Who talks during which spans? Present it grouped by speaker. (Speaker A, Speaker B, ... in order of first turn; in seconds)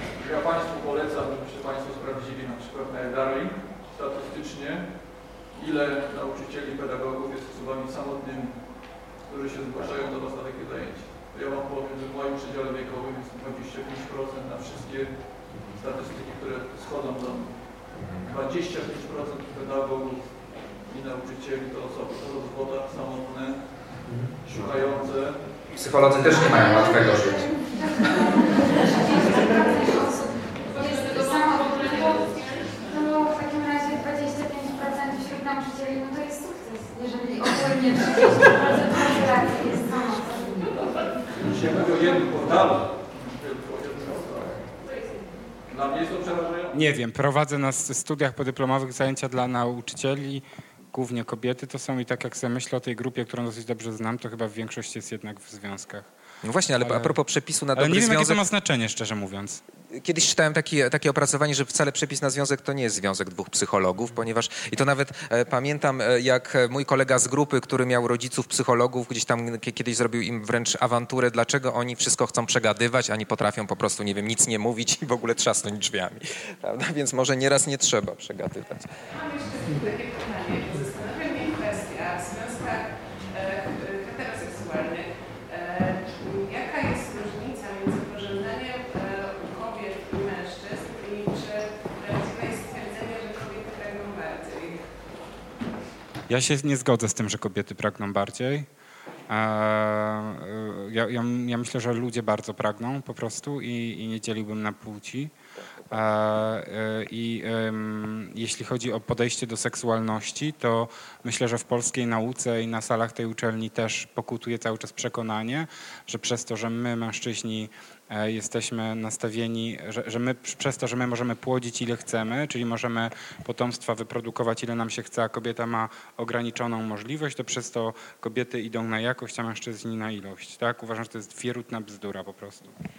Speaker A: 0.2-25.5, 41.3-44.7, 45.7-46.8
Speaker B: 17.9-18.3, 25.7-27.5, 56.4-58.4, 59.9-78.9
Speaker C: 26.3-40.8
Speaker D: 46.7-56.1, 56.8-57.2, 57.7-59.6, 96.3-98.7, 99.3-105.3, 105.9-132.7
Speaker E: 79.1-94.9